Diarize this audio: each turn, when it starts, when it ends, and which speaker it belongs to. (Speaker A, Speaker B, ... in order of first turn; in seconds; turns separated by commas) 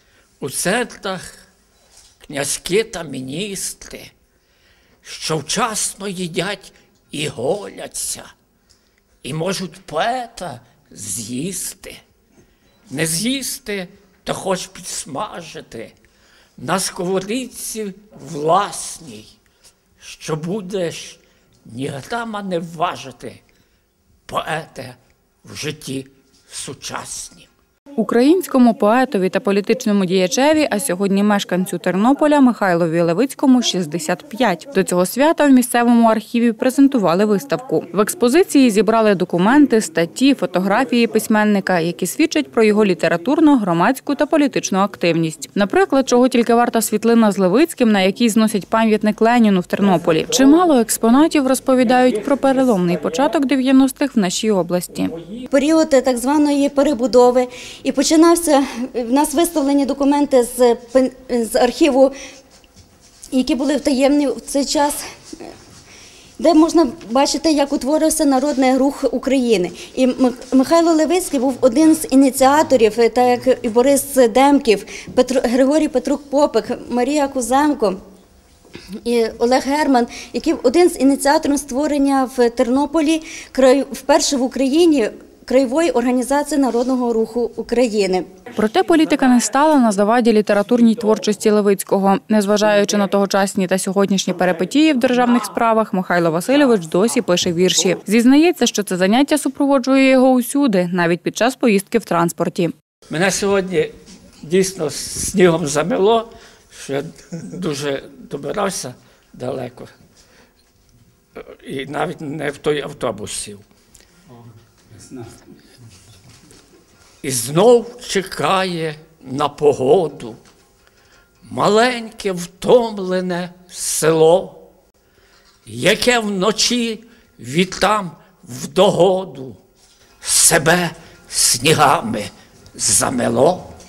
Speaker A: 0.4-1.3, Speaker A: 2.3-4.1, Speaker A: 5.0-8.3, Speaker A: 9.2-12.0, Speaker A: 12.9-15.9, Speaker A: 16.6-19.3, Speaker A: 20.0-23.4, Speaker A: 24.3-27.5, Speaker B: 28.0-55.1, Speaker A: 51.8-53.0, Speaker A: 54.9-55.4, Speaker C: 55.5-62.1, Speaker C: 63.3-65.0, Speaker C: 66.4-78.0, Speaker C: 79.0-88.3, Speaker B: 88.5-102.7, Speaker A: 103.1-109.9, Speaker A: 111.3-113.6, Speaker A: 117.2-120.4, Speaker A: 121.4-124.6, Speaker A: 125.7-129.6, Speaker A: 130.2-133.7